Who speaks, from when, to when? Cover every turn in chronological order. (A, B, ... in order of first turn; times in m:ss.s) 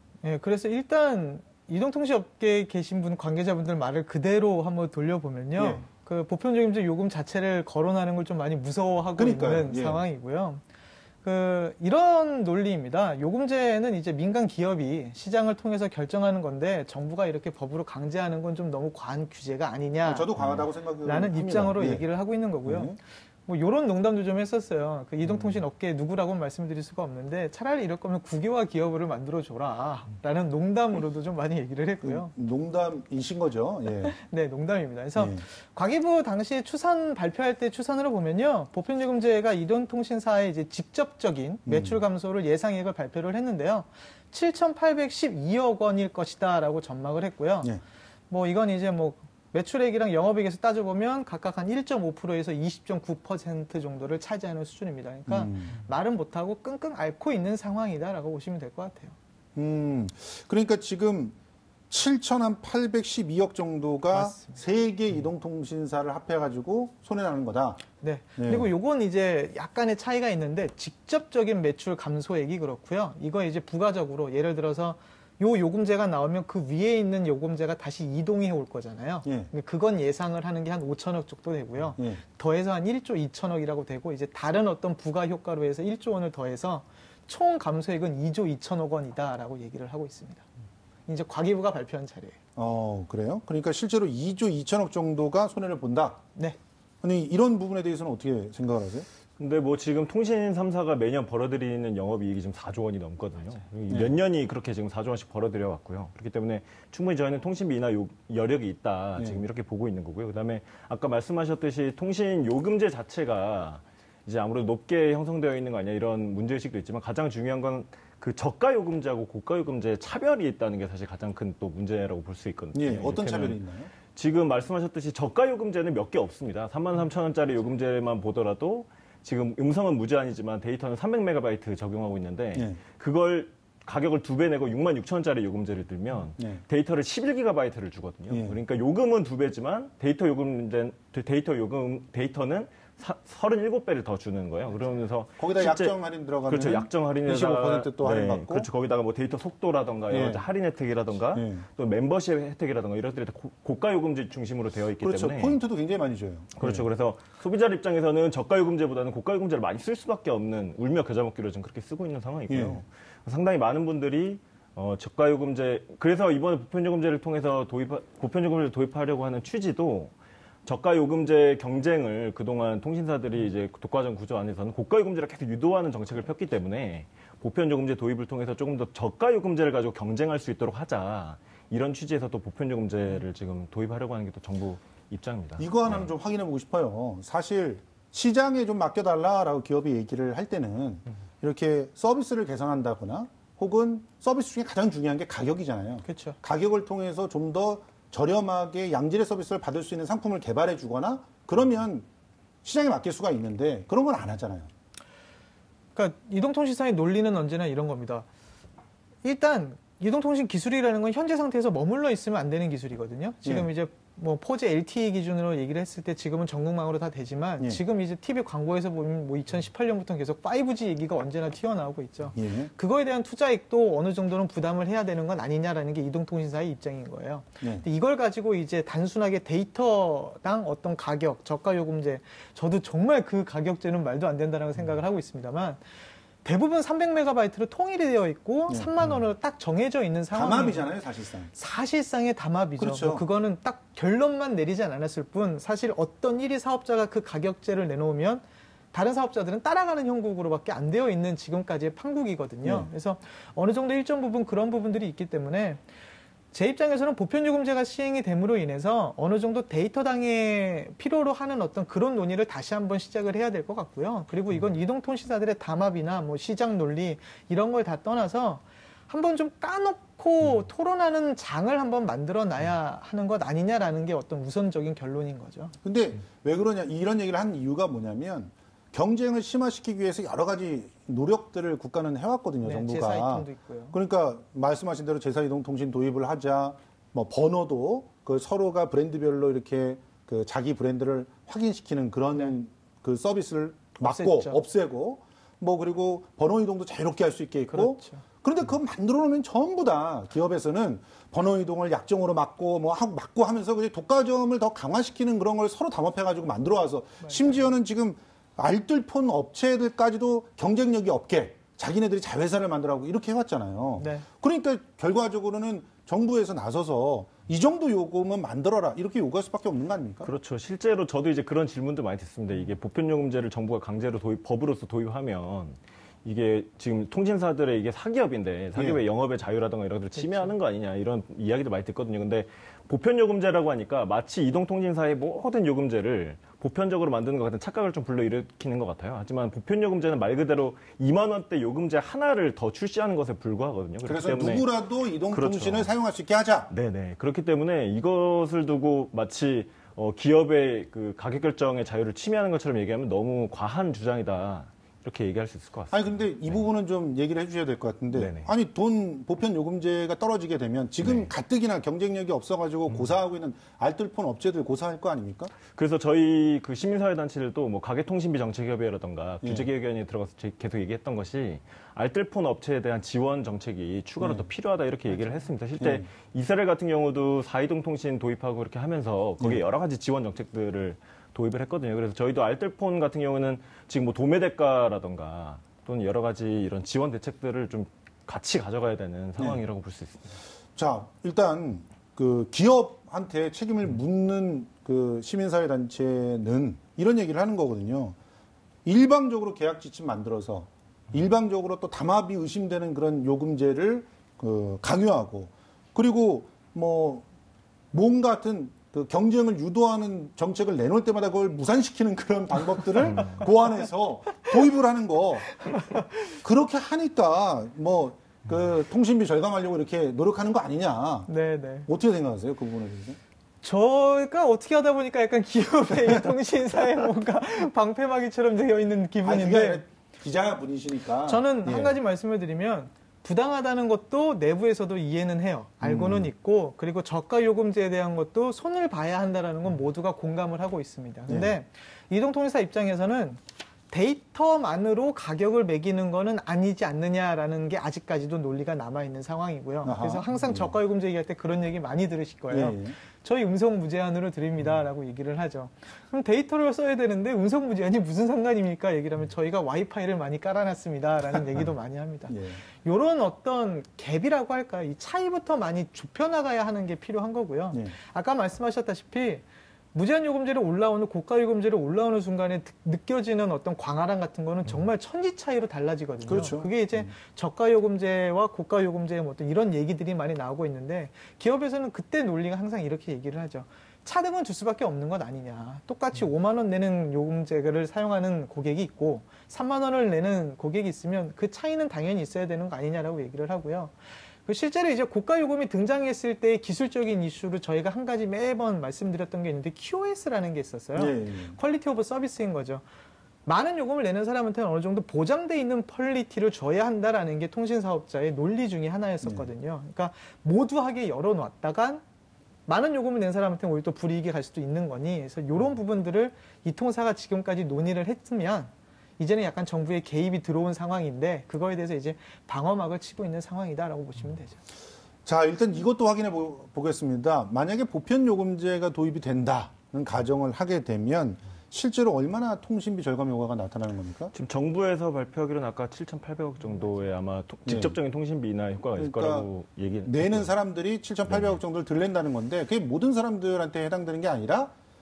0:00.2-0:10.6 A
0:05.6-0:05.8 B
0:09.2-0:10.0 B
0:11.2-0:20.3 A
0:20.0-0:22.0 B
0:21.0-0:32.3 A
0:22.6-0:23.0 B
0:32.0-0:34.2 B
0:34.0-0:47.7 A
0:35.2-0:35.4 B
0:41.7-0:42.0 B
0:48.3-0:59.2 A
0:55.3-0:55.7 B
0:59.6-1:01.4 B
1:01.9-1:07.8 B
1:04.1-1:04.6 A
1:08.0-1:30.5 A
1:08.4-1:08.7 B
1:19.2-1:19.5 B
1:31.1-1:32.4 A
1:32.6-1:36.2 B
1:37.0-1:39.1 B
1:39.4-2:03.6 C
1:43.9-1:44.2 B
2:02.7-2:03.9 B
2:04.1-2:26.0 C
2:12.6-2:12.8 B
2:18.3-2:18.6 B
2:25.4-2:28.7 B
2:26.5-2:35.6 C
2:30.1-2:30.4 B
2:31.3-2:31.6 B
2:35.0-2:36.8 B
2:36.6-2:50.1 C
2:42.5-2:42.8 B
2:50.6-3:06.1 C
3:05.6-3:22.1 B
3:16.1-3:16.4 A
3:22.6-3:24.7 B
3:26.0-3:28.3 A
3:29.2-3:55.8 A
3:42.4-3:42.7 B
3:56.4-4:00.8 A
4:00.3-4:01.5 B
4:01.5-4:15.8 A
4:02.8-4:03.2 B
4:12.6-4:12.9 B
4:16.5-4:35.8 A
4:35.8-5:20.3 B
4:42.6-4:44.0 A
4:54.0-4:54.6 A
4:57.7-4:58.2 A
5:14.0-5:14.3 A
5:20.2-5:44.7 C
5:28.8-5:29.0 B
5:44.0-5:46.7 B
5:45.3-5:45.9 C
5:46.7-5:56.6 C
5:55.9-6:05.5 B
5:58.1-5:58.5 C
6:01.0-6:01.3 C
6:05.7-6:30.4 C
6:09.4-6:09.7 B
6:14.2-6:14.5 B
6:15.8-6:16.1 B
6:30.8-6:38.2 B
6:38.8-6:47.2 B
6:47.9-6:55.8 B
6:55.7-6:56.4 A
6:56.3-7:01.3 B
7:01.3-7:01.9 A
7:01.9-7:03.2 B
7:03.6-7:09.8 A
7:09.2-7:12.0 B
7:11.3-8:13.9 A
7:15.8-7:16.3 B
7:21.3-7:21.5 B
7:29.8-7:30.8 B
7:32.5-7:33.0 B
7:42.3-7:42.6 B
7:56.3-7:57.1 B
8:14.4-8:22.8 A
8:21.0-8:21.6 B
8:23.5-8:32.0 A
8:29.2-8:29.5 B
8:32.7-8:44.6 A
8:45.2-8:54.3 B
8:54.3-9:00.5 C
8:57.7-8:57.9 B
8:59.0-8:59.5 B
9:00.0-9:04.7 B
9:01.3-9:01.6 C